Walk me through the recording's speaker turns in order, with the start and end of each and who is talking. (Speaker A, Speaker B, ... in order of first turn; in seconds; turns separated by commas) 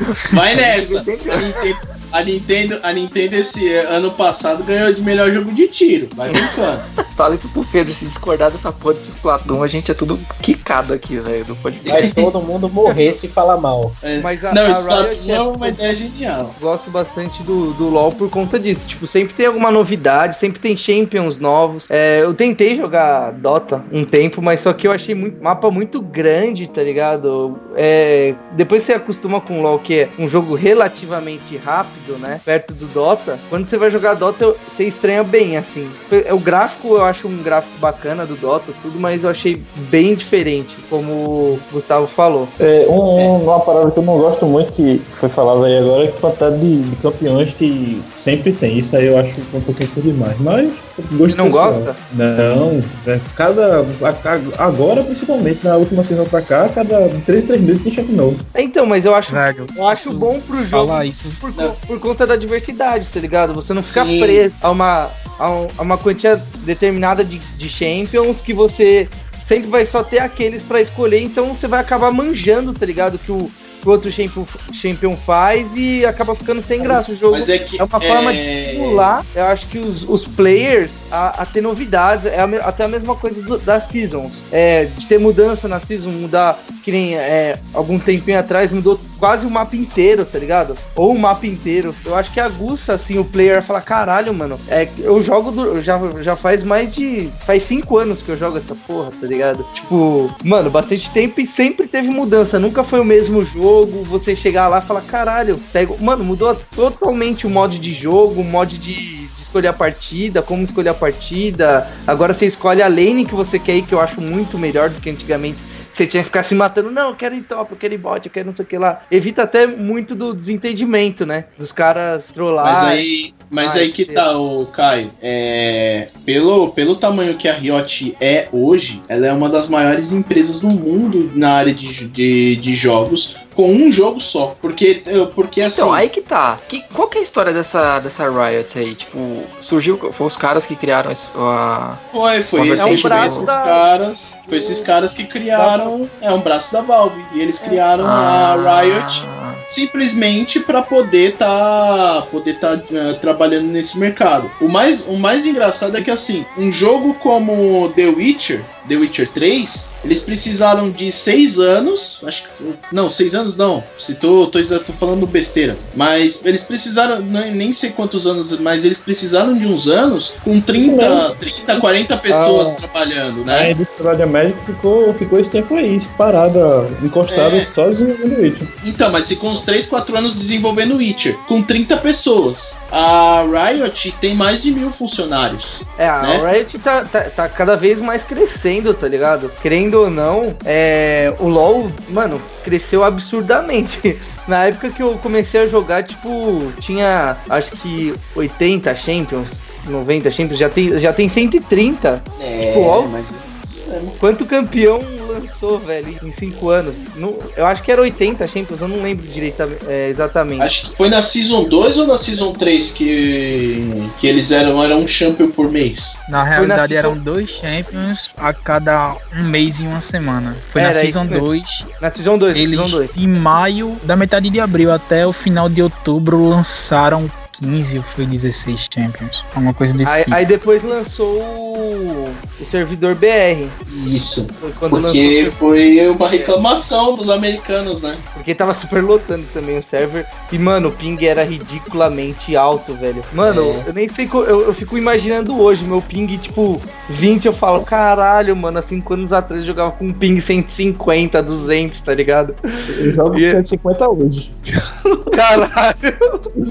Speaker A: 0.2-1.5, Speaker B: 0.3-6.8, Speaker A: 7.1-12.1, Speaker C: 11.9-14.0, Speaker B: 11.9-12.3, Speaker B: 14.0-16.6, Speaker D: 14.2-15.8, Speaker D: 16.6-42.5, Speaker E: 42.6-58.5, Speaker D: 51.3-52.0, Speaker D: 58.5-123.0, Speaker F: 59.3-61.4, Speaker B: 63.8-64.5, Speaker B: 76.8-79.2, Speaker B: 122.6-136.1, Speaker D: 123.6-124.3, Speaker A: 135.7-142.0, Speaker B: 142.1-173.7, Speaker A: 142.6-143.5, Speaker D: 142.8-143.9, Speaker D: 144.5-144.9, Speaker D: 145.5-146.0, Speaker A: 148.0-149.6, Speaker E: 170.8-171.3, Speaker E: 172.3-172.8, Speaker E: 173.5-178.7, Speaker B: 177.3-177.7, Speaker B: 178.8-186.4, Speaker D: 186.0-203.1, Speaker B: 202.4-204.2, Speaker D: 204.2-210.7, Speaker B: 210.6-216.2, Speaker F: 216.3-221.9, Speaker D: 216.5-217.2, Speaker D: 220.8-221.5, Speaker D: 222.0-223.1, Speaker F: 222.5-230.4, Speaker D: 230.0-233.8, Speaker B: 233.9-238.2, Speaker D: 234.6-235.6, Speaker D: 236.2-236.6, Speaker D: 238.3-253.6, Speaker B: 243.5-243.9, Speaker E: 252.9-254.6, Speaker D: 255.3-256.4